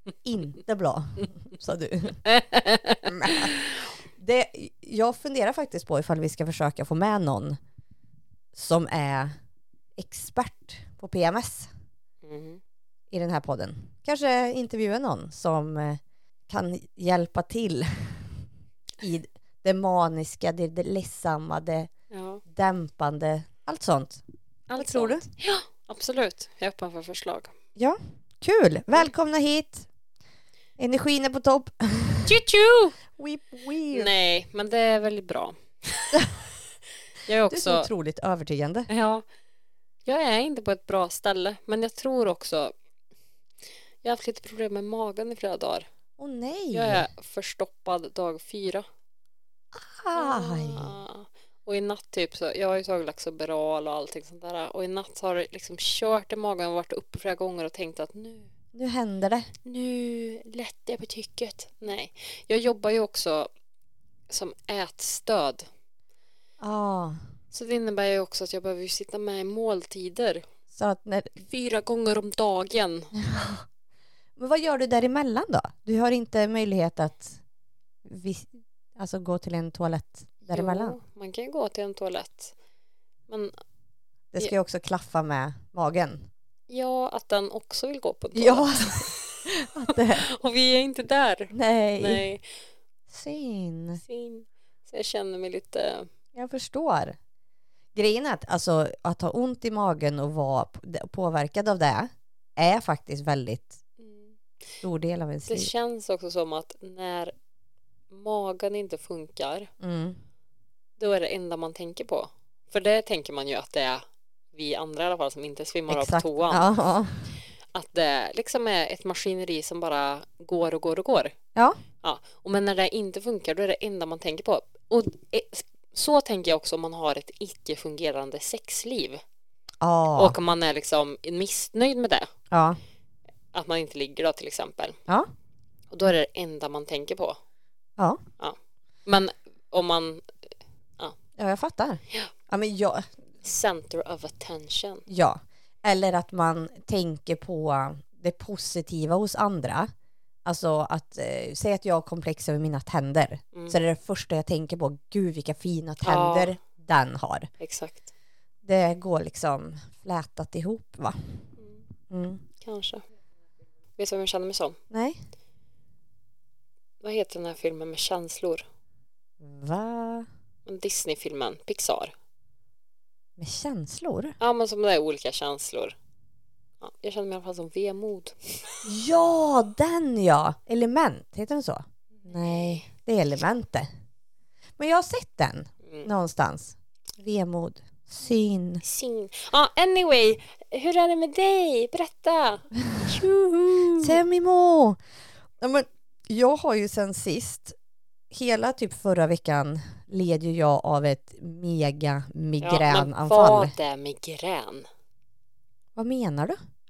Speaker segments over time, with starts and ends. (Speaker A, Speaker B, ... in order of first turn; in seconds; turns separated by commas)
Speaker A: 0.2-2.2, Speaker B: 2.2-3.9, Speaker A: 3.0-3.5, Speaker A: 4.2-7.6, Speaker A: 8.5-9.3, Speaker A: 10.0-11.7, Speaker B: 12.2-12.6, Speaker A: 13.1-18.4, Speaker A: 19.0-21.9, Speaker B: 22.1-22.4, Speaker A: 22.5-24.2, Speaker B: 24.7-27.5, Speaker A: 24.8-25.2, Speaker A: 27.8-29.9, Speaker A: 30.8-32.3, Speaker B: 32.2-33.0, Speaker A: 33.2-34.1, Speaker B: 33.9-36.4, Speaker B: 37.2-37.9, Speaker A: 37.5-38.9, Speaker B: 38.9-39.2, Speaker B: 40.1-42.7, Speaker B: 44.0-45.9, Speaker A: 46.2-47.0, Speaker B: 46.7-48.9, Speaker A: 49.7-51.0, Speaker B: 50.1-58.5, Speaker A: 58.7-59.5, Speaker B: 59.6-63.5, Speaker B: 64.3-65.7, Speaker A: 66.6-67.2, Speaker B: 67.5-70.4, Speaker A: 70.7-71.4, Speaker B: 71.4-73.1, Speaker A: 73.2-73.6, Speaker A: 74.4-77.4, Speaker A: 78.0-81.0, Speaker B: 80.5-82.5, Speaker A: 84.3-86.2, Speaker B: 86.7-92.4, Speaker A: 88.3-90.2, Speaker A: 91.5-92.2, Speaker A: 93.1-94.0, Speaker B: 94.0-96.1, Speaker A: 96.3-97.2, Speaker A: 98.0-103.8, Speaker B: 104.0-104.4, Speaker A: 104.8-105.7, Speaker B: 105.5-107.3, Speaker B: 108.1-109.7, Speaker A: 109.8-110.2, Speaker B: 111.0-116.7, Speaker A: 115.9-117.2, Speaker B: 117.7-121.3, Speaker B: 122.0-129.2, Speaker A: 129.8-130.3, Speaker B: 130.2-132.3, Speaker A: 132.5-132.8, Speaker B: 133.5-135.0, Speaker B: 135.9-137.4, Speaker B: 138.4-140.3, Speaker A: 141.4-143.1, Speaker B: 143.4-145.0, Speaker A: 145.1-149.9, Speaker A: 150.4-157.5, Speaker B: 153.5-153.8, Speaker B: 156.0-156.6, Speaker B: 157.6-158.0, Speaker A: 158.6-161.2, Speaker B: 161.6-161.8, Speaker A: 162.1-162.4, Speaker B: 162.6-163.0, Speaker B: 164.0-164.8, Speaker A: 164.9-165.2, Speaker B: 167.0-168.7, Speaker A: 169.4-170.3, Speaker B: 170.7-172.1, Speaker A: 173.4-174.3, Speaker B: 174.4-176.0, Speaker B: 176.8-178.7, Speaker A: 178.8-183.9, Speaker B: 182.2-182.8, Speaker A: 184.8-188.8, Speaker B: 188.8-194.2, Speaker A: 193.9-195.0, Speaker A: 195.6-197.8, Speaker A: 198.3-203.7, Speaker B: 202.6-204.9, Speaker A: 206.0-206.6